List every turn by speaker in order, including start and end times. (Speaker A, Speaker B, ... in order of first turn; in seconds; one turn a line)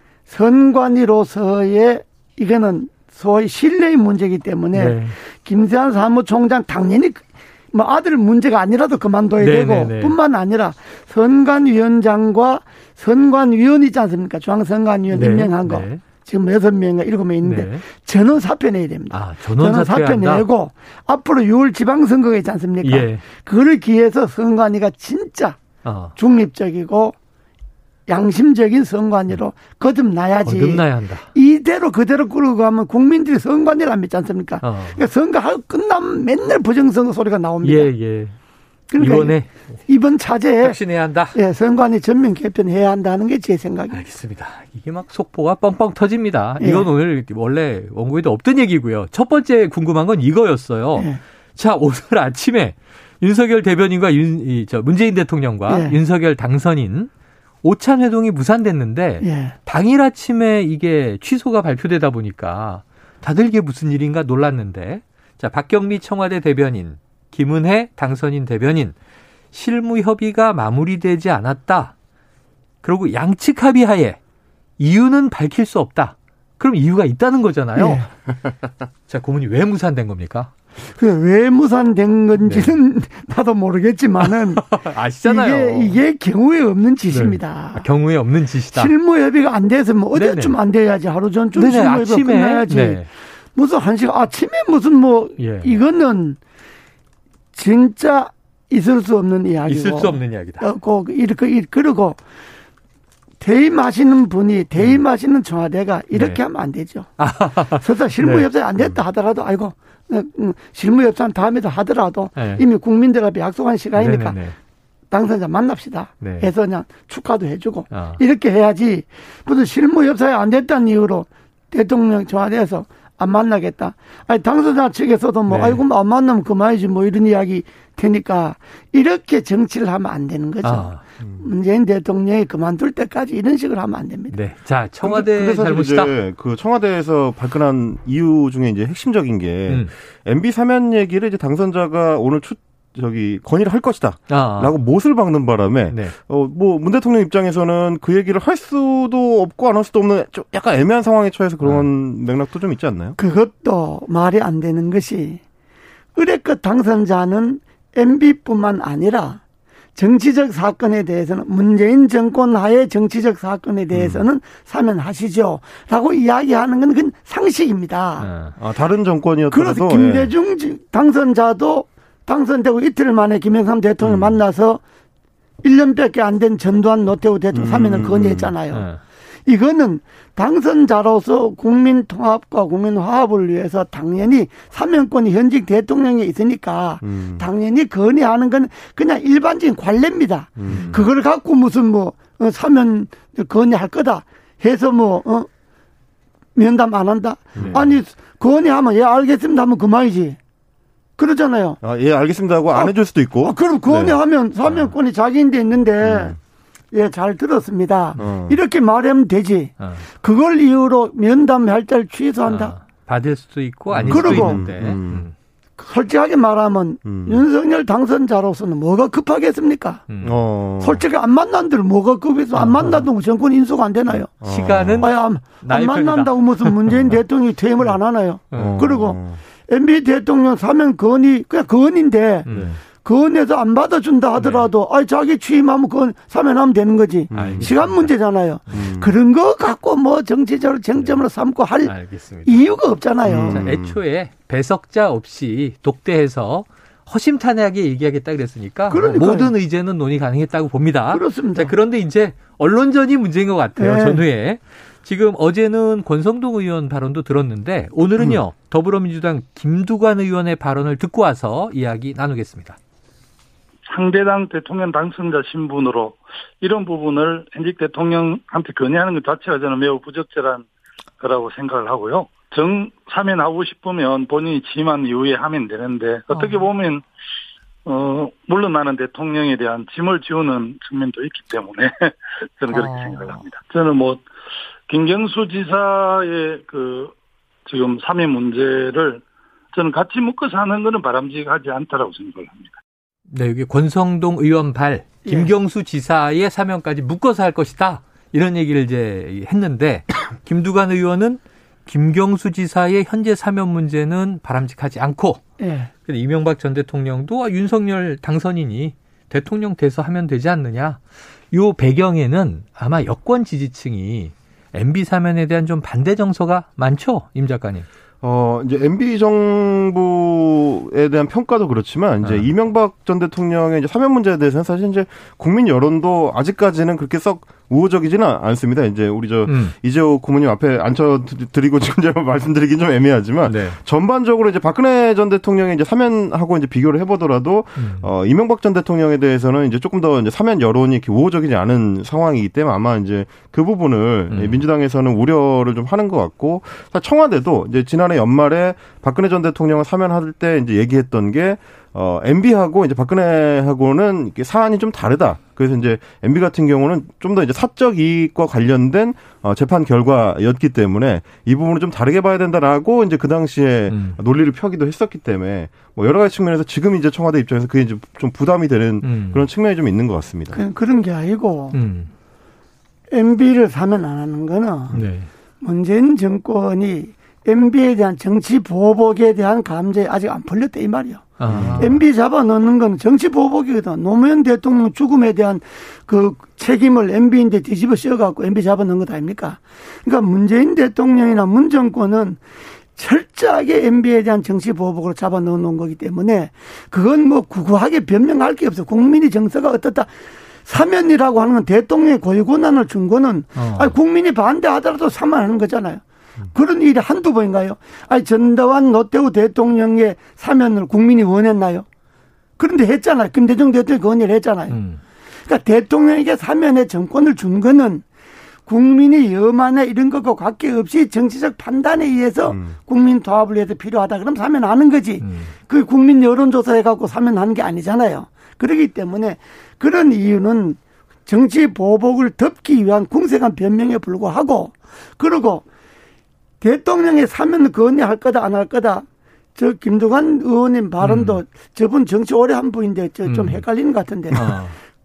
Speaker A: 0.3-25.6
Speaker B: 4.7-5.2
Speaker B: 9.4-10.2
Speaker B: 15.1-16.0
Speaker B: 17.4-17.9
Speaker B: 19.1-20.5
Speaker B: 22.8-23.2
Speaker B: 25.8-26.1
Speaker A: 26.2-27.1
Speaker A: 28.1-37.9
Speaker B: 30.4-31.3
Speaker B: 34.6-35.0
Speaker B: 37.6-38.4
Speaker A: 38.9-39.4
Speaker B: 39.0-39.8
Speaker A: 39.9-40.8
Speaker B: 40.6-41.4
Speaker A: 41.3-44.0
Speaker B: 43.9-57.1
Speaker A: 46.6-46.9
Speaker A: 55.7-56.0
Speaker B: 57.6-69.0
Speaker A: 59.2-59.6
Speaker B: 69.5-71.9
Speaker B: 72.8-74.2
Speaker B: 74.8-78.0
Speaker A: 77.8-78.1
Speaker B: 79.1-80.5
Speaker A: 81.0-87.9
Speaker B: 82.4-82.7
Speaker B: 84.2-86.0
Speaker B: 87.1-88.9
Speaker A: 88.7-96.4
Speaker B: 90.1-90.5
Speaker B: 91.5-93.1
Speaker B: 95.4-95.8
Speaker A: 97.5-102.2
Speaker B: 99.7-100.7
Speaker A: 103.4-107.1
Speaker B: 106.1-106.4
Speaker B: 107.2-108.5
Speaker A: 107.7-114.4
Speaker B: 112.4-112.7
Speaker B: 114.0-114.6
Speaker A: 115.1-134.4
Speaker B: 116.2-116.5
Speaker B: 117.9-118.2
Speaker B: 125.5-125.8
Speaker B: 130.6-131.0
Speaker B: 134.3-136.1
Speaker C: 135.0-153.2
Speaker B: 144.3-144.8
Speaker B: 151.6-151.9
Speaker A: 153.2-155.4
Speaker A: 156.2-159.4
Speaker A: 160.0-168.3
Speaker C: 163.9-164.3
Speaker B: 168.2-168.6
Speaker C: 168.6-170.3
Speaker A: 169.5-174.8
Speaker C: 174.0-174.4
Speaker A: 175.6-178.9
Speaker C: 177.5-178.5
Speaker B: 178.7-179.0
Speaker A: 179.5-195.5
Speaker C: 187.0-187.5
Speaker C: 190.6-191.0
Speaker B: 190.7-191.1
Speaker A: 196.6-200.4
Speaker C: 197.6-197.9
Speaker B: 197.6-197.9
Speaker A: 201.2-201.8
Speaker C: 201.8-204.2
Speaker A: 202.7-206.4
Speaker C: 206.0-206.4
Speaker A: 206.9-212.7
Speaker C: 208.2-208.6
Speaker B: 209.8-210.1
Speaker B: 212.5-215.3
Speaker C: 213.9-215.3
Speaker A: 214.1-214.9
Speaker A: 215.8-220.1
Speaker C: 217.1-217.4
Speaker B: 220.1-220.4
Speaker C: 220.2-221.1
Speaker A: 220.8-224.4
Speaker B: 222.6-223.1
Speaker C: 224.1-225.1
Speaker B: 224.4-227.2
Speaker A: 225.0-243.6
Speaker B: 228.5-228.8
Speaker C: 228.5-229.4
Speaker B: 232.5-232.8
Speaker B: 234.4-234.7
Speaker C: 237.3-237.9
Speaker B: 237.3-238.1
Speaker C: 238.7-239.1
Speaker B: 241.8-242.7
Speaker C: 243.2-244.0
Speaker B: 243.5-262.8
Speaker A: 248.9-249.5
Speaker A: 251.1-251.7
Speaker A: 253.8-254.2
Speaker D: 263.9-270.7
Speaker D: 271.2-277.0
Speaker B: 276.3-276.7
Speaker D: 277.9-284.2
Speaker B: 282.7-283.4
Speaker D: 284.9-287.1
Speaker D: 287.7-292.8
Speaker B: 293.3-305.4
Speaker A: 295.2-295.5
Speaker A: 305.6-305.9
Speaker B: 306.1-311.0
Speaker B: 311.5-317.9
Speaker C: 318.2-370.6
Speaker B: 322.2-322.5
Speaker B: 329.5-329.8
Speaker B: 333.5-333.8
Speaker B: 337.8-338.1
Speaker B: 344.3-344.6
Speaker B: 363.9-364.2
Speaker B: 369.0-369.5
Speaker A: 370.5-371.8
Speaker B: 371.7-372.1
Speaker A: 373.1-375.0
Speaker B: 374.9-375.3
Speaker A: 375.6-392.4
Speaker B: 381.4-382.0
Speaker C: 381.5-382.0
Speaker A: 392.9-400.1
Speaker A: 400.6-406.0
Speaker B: 403.6-404.0
Speaker A: 406.5-411.9
Speaker A: 412.6-414.8
Speaker B: 414.7-415.0
Speaker A: 415.5-418.0
Speaker A: 418.7-435.6
Speaker C: 422.5-422.8
Speaker B: 425.2-425.5
Speaker A: 436.6-444.6
Speaker B: 441.0-441.4
Speaker B: 443.2-443.6
Speaker B: 444.3-444.8